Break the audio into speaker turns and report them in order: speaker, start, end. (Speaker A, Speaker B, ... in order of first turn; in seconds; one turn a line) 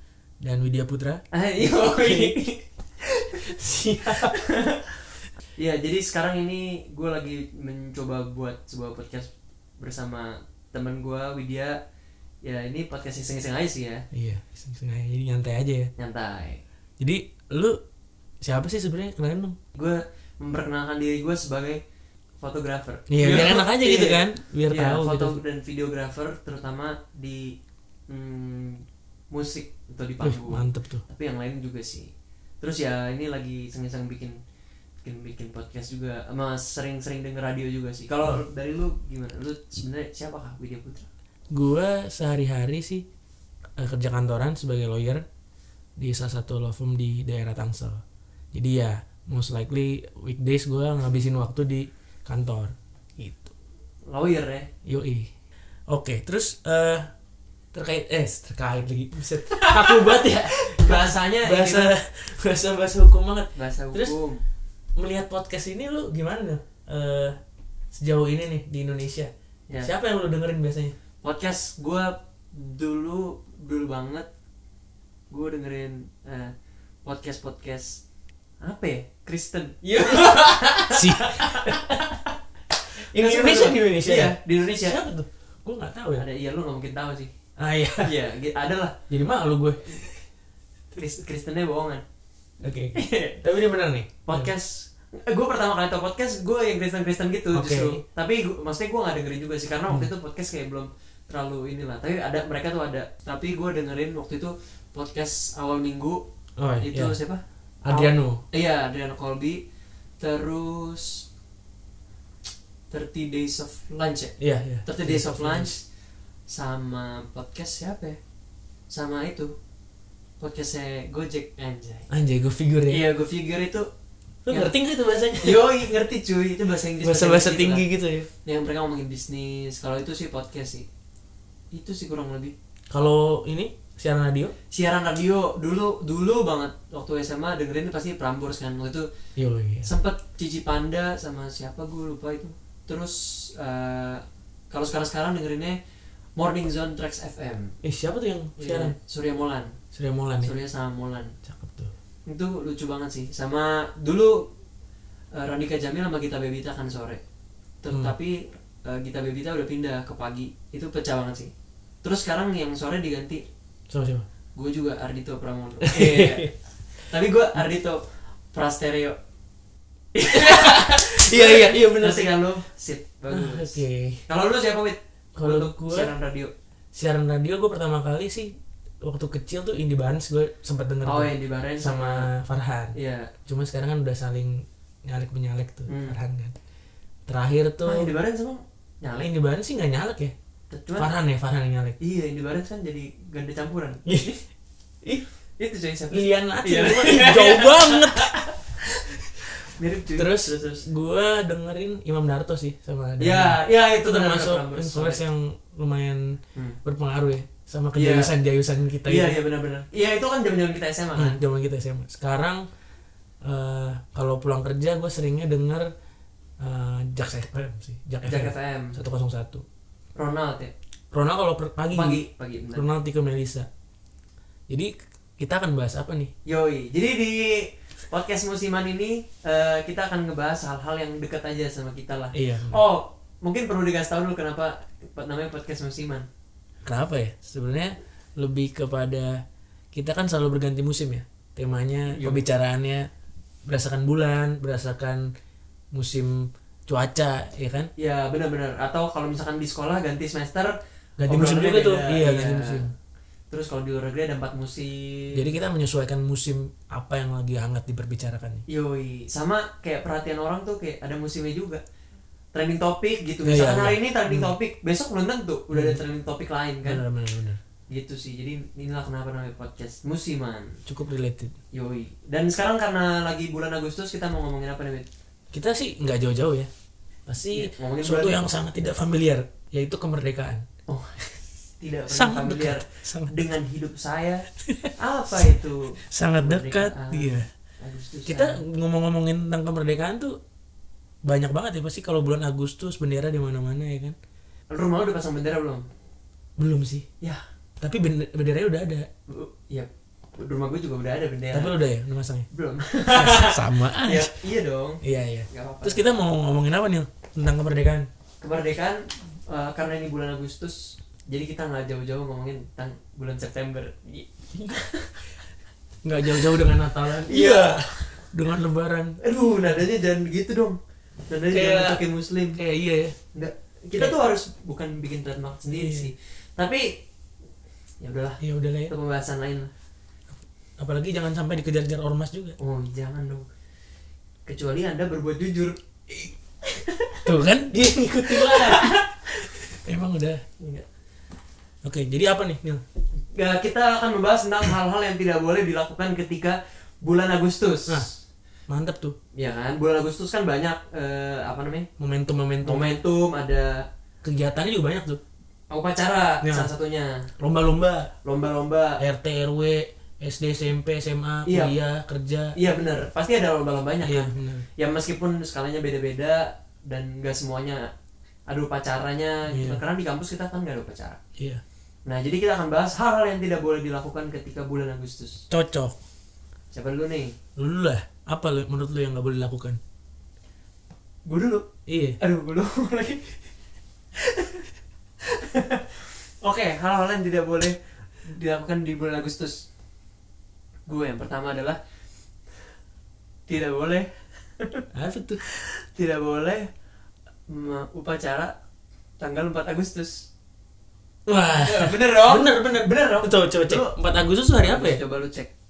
Speaker A: 0.4-2.6
Speaker B: 1.3-2.5
Speaker A: 3.4-4.3
Speaker B: 4.0-4.9
Speaker B: 5.6-11.8
Speaker B: 12.4-14.0
Speaker A: 14.1-15.9
Speaker B: 16.0-16.6
Speaker A: 17.0-17.8
Speaker A: 18.4-19.6
Speaker B: 19.8-21.8
Speaker B: 22.4-27.6
Speaker A: 23.1-25.4
Speaker B: 28.1-32.1
Speaker A: 30.2-31.0
Speaker B: 32.6-34.4
Speaker B: 35.0-41.1
Speaker A: 41.5-43.0
Speaker A: 43.8-45.2
Speaker A: 46.0-48.0
Speaker A: 48.5-53.5
Speaker B: 54.1-54.7
Speaker A: 54.9-55.3
Speaker A: 55.9-57.1
Speaker A: 57.7-64.1
Speaker B: 59.5-61.9
Speaker B: 63.5-64.4
Speaker A: 65.0-67.4
Speaker A: 67.9-70.9
Speaker B: 71.2-74.3
Speaker B: 75.3-76.5
Speaker B: 77.0-78.0
Speaker B: 78.6-81.9
Speaker A: 80.9-82.1
Speaker A: 83.1-86.3
Speaker B: 83.1-85.0
Speaker B: 86.1-87.3
Speaker A: 87.6-88.1
Speaker B: 88.0-89.0
Speaker A: 89.1-90.2
Speaker B: 91.0-92.0
Speaker A: 92.6-94.5
Speaker B: 93.0-93.4
Speaker B: 94.3-106.2
Speaker A: 97.5-98.0
Speaker A: 106.6-107.2
Speaker B: 106.8-109.6
Speaker A: 107.8-108.4
Speaker B: 110.2-111.2
Speaker B: 112.9-115.8
Speaker A: 114.4-115.7
Speaker B: 116.5-118.2
Speaker B: 118.9-119.5
Speaker B: 120.4-122.1
Speaker A: 122.1-123.1
Speaker B: 122.9-123.9
Speaker A: 124.5-125.7
Speaker B: 124.5-124.8
Speaker B: 125.4-127.8
Speaker A: 127.0-128.3
Speaker B: 128.4-130.9
Speaker B: 131.7-132.6
Speaker A: 132.9-134.5
Speaker B: 134.7-139.1
Speaker A: 139.4-139.9
Speaker B: 139.8-145.8
Speaker B: 146.4-147.8
Speaker A: 147.8-148.9
Speaker B: 148.6-149.7
Speaker A: 149.9-150.6
Speaker B: 150.4-151.3
Speaker A: 151.4-151.9
Speaker B: 152.3-154.5
Speaker B: 155.3-157.2
Speaker B: 157.8-161.5
Speaker B: 162.0-163.4
Speaker A: 163.9-164.3
Speaker B: 164.6-169.2
Speaker A: 165.8-166.5
Speaker B: 170.1-176.5
Speaker A: 170.3-172.4
Speaker A: 173.3-174.2
Speaker A: 175.4-176.1
Speaker A: 176.9-183.0
Speaker B: 181.0-182.3
Speaker B: 182.9-183.3
Speaker A: 183.5-186.6
Speaker B: 185.9-186.2
Speaker A: 187.3-188.1
Speaker B: 187.8-189.3
Speaker A: 189.2-190.3
Speaker B: 190.7-191.1
Speaker A: 191.0-192.0
Speaker B: 192.0-194.4
Speaker A: 194.1-194.4
Speaker B: 195.6-200.8
Speaker A: 196.1-198.4
Speaker A: 200.2-209.4
Speaker B: 203.2-205.2
Speaker B: 207.9-208.3
Speaker B: 209.1-211.4
Speaker A: 211.2-212.6
Speaker A: 213.4-215.9
Speaker A: 216.6-219.6
Speaker B: 218.2-219.0
Speaker B: 220.2-220.7
Speaker A: 221.1-222.2
Speaker B: 221.9-222.9
Speaker A: 222.7-223.7
Speaker A: 224.7-226.3
Speaker B: 226.5-236.3
Speaker A: 232.3-232.8
Speaker A: 236.8-239.4
Speaker A: 239.9-243.1
Speaker B: 242.1-242.5
Speaker A: 243.7-245.2
Speaker A: 245.9-247.9
Speaker B: 248.0-250.8
Speaker A: 251.2-252.9
Speaker B: 251.3-252.9
Speaker B: 253.5-255.5
Speaker A: 255.3-258.6
Speaker B: 258.7-261.8
Speaker B: 262.5-267.0
Speaker A: 263.4-264.5
Speaker A: 265.7-266.0
Speaker A: 266.9-267.6
Speaker B: 267.9-270.8
Speaker A: 270.9-271.6
Speaker B: 271.7-275.1
Speaker A: 275.5-276.7
Speaker A: 277.3-280.6
Speaker B: 277.5-278.5
Speaker B: 280.9-288.6
Speaker A: 282.1-283.3
Speaker A: 284.7-284.9
Speaker A: 286.1-287.5
Speaker A: 288.3-290.4
Speaker A: 291.2-294.2
Speaker B: 294.7-295.9
Speaker A: 296.6-297.1
Speaker A: 297.8-299.1
Speaker B: 299.3-301.7
Speaker A: 301.5-302.5
Speaker B: 302.5-306.1
Speaker A: 303.1-304.4
Speaker A: 305.0-308.1
Speaker B: 308.4-315.1
Speaker A: 316.0-319.2
Speaker B: 317.2-318.0
Speaker B: 319.2-322.6
Speaker A: 321.5-322.0
Speaker A: 322.6-323.2
Speaker B: 323.3-327.0
Speaker A: 325.8-326.1
Speaker B: 328.0-329.7
Speaker A: 328.4-328.9
Speaker A: 330.8-332.6
Speaker B: 332.6-333.5
Speaker B: 334.5-337.3
Speaker A: 337.3-340.4
Speaker B: 338.2-339.1
Speaker B: 340.6-340.9
Speaker A: 341.8-342.8
Speaker B: 343.3-348.1
Speaker A: 348.7-349.1
Speaker B: 349.4-351.9
Speaker A: 352.0-353.0
Speaker B: 352.6-353.9
Speaker A: 354.2-355.2
Speaker B: 355.7-357.3
Speaker A: 356.4-356.7
Speaker A: 357.4-358.1
Speaker B: 358.2-359.0
Speaker A: 359.0-362.5
Speaker B: 361.5-361.8
Speaker B: 362.6-367.9
Speaker A: 364.0-364.7
Speaker B: 368.5-371.2
Speaker A: 369.5-369.8
Speaker A: 371.4-371.6
Speaker B: 372.1-375.4
Speaker A: 375.5-376.0
Speaker B: 376.7-377.4
Speaker A: 377.6-379.8
Speaker B: 381.2-381.7
Speaker A: 381.9-382.2
Speaker B: 382.2-383.3
Speaker B: 384.2-384.7
Speaker B: 385.3-389.6
Speaker B: 390.9-391.8
Speaker B: 393.5-394.8
Speaker A: 394.9-395.4
Speaker B: 395.4-396.7
Speaker B: 397.5-398.5
Speaker B: 399.2-400.3
Speaker A: 401.3-405.0
Speaker B: 401.6-404.0
Speaker B: 404.6-405.5